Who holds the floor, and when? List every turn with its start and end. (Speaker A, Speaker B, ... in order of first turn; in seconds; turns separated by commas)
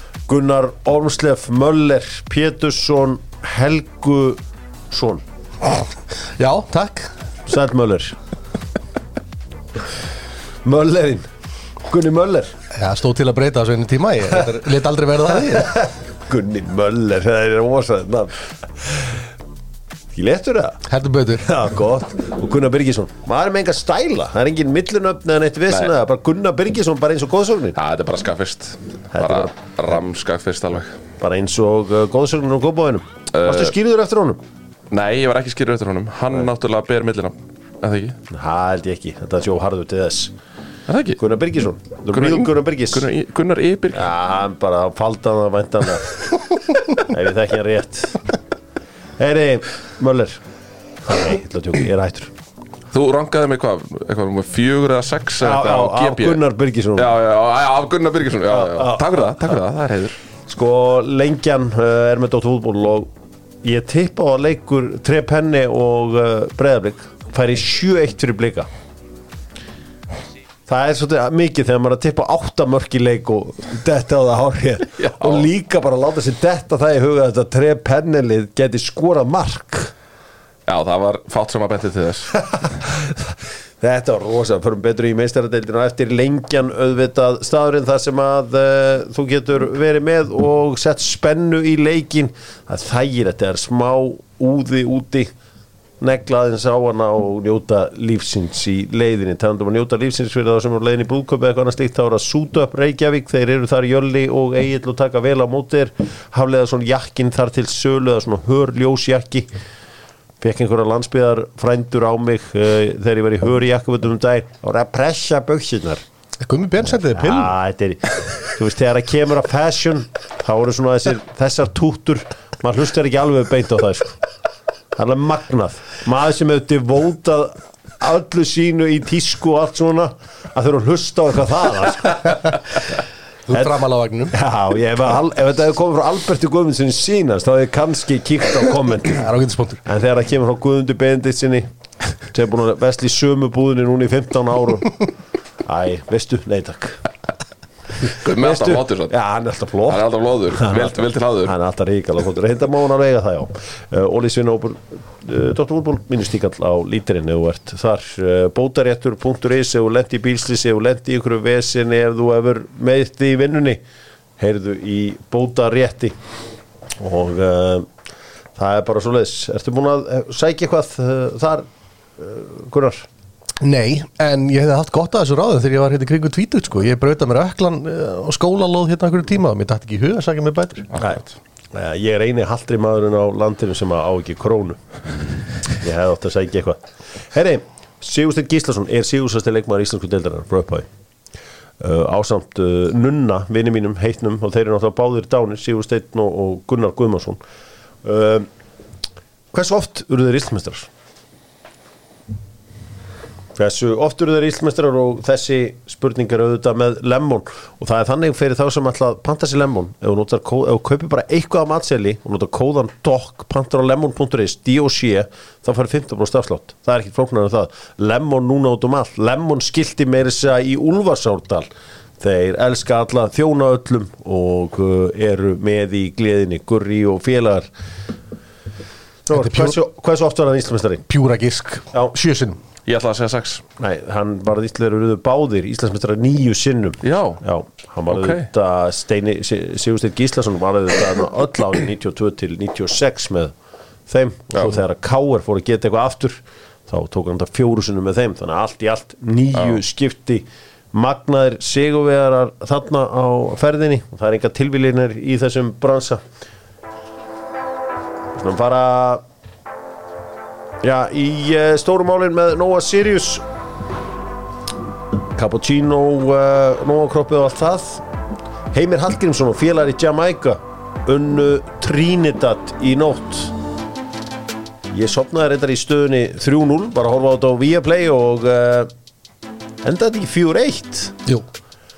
Speaker A: 0.3-5.2, Speaker B: 6.2-7.1, Speaker A: 7.5-8.2, Speaker A: 10.6-11.3, Speaker A: 11.8-12.5, Speaker B: 12.7-15.8, Speaker A: 15.4-19.2, Speaker A: 20.1-20.8, Speaker B: 20.9-21.5, Speaker A: 21.4-27.8, Speaker C: 27.8-31.0, Speaker A: 29.1-29.5, Speaker A: 31.2-34.4, Speaker C: 33.3-33.7, Speaker C: 34.9-38.2, Speaker A: 38.3-40.3, Speaker C: 40.9-41.2, Speaker A: 41.2-43.1, Speaker C: 42.1-44.1, Speaker A: 43.9-46.2, Speaker A: 46.9-48.3, Speaker A: 49.2-50.4, Speaker A: 51.0-52.3, Speaker C: 52.9-56.4, Speaker A: 55.4-57.1, Speaker C: 57.0-60.2, Speaker A: 58.5-59.5, Speaker A: 60.5-63.1, Speaker A: 63.6-68.7, Speaker A: 70.7-79.9, Speaker C: 75.0-75.5, Speaker C: 80.7-82.4, Speaker A: 82.6-95.3, Speaker A: 96.0-109.5, Speaker A: 110.4-116.0, Speaker B: 116.4-117.5, Speaker A: 117.1-124.2, Speaker A: 124.9-132.6, Speaker B: 133.5-134.3, Speaker A: 133.5-139.3, Speaker B: 139.1-139.8, Speaker A: 139.8-141.7, Speaker A: 142.2-145.1, Speaker A: 145.7-147.0, Speaker A: 148.0-163.8, Speaker C: 148.1-149.1, Speaker C: 149.9-151.5, Speaker A: 164.4-166.2, Speaker A: 167.0-167.9, Speaker A: 168.6-173.1, Speaker B: 173.6-180.9, Speaker C: 180.9-181.3, Speaker A: 181.0-181.2, Speaker A: 181.7-185.0, Speaker A: 185.7-190.9, Speaker A: 191.8-197.4, Speaker A: 198.0-198.5, Speaker A: 199.5-200.9, Speaker A: 203.6-221.7, Speaker A: 222.2-227.7, Speaker A: 229.2-231.0, Speaker B: 229.3-229.8, Speaker B: 231.1-232.6, Speaker C: 232.8-233.6, Speaker A: 233.8-243.5, Speaker C: 237.0-237.4, Speaker C: 238.1-238.5, Speaker A: 244.1-256.2, Speaker C: 249.5-249.8, Speaker A: 258.4-259.2, Speaker A: 260.8-263.4, Speaker A: 265.4-268.0, Speaker A: 268.7-273.5, Speaker A: 274.9-278.9, Speaker A: 279.8-281.2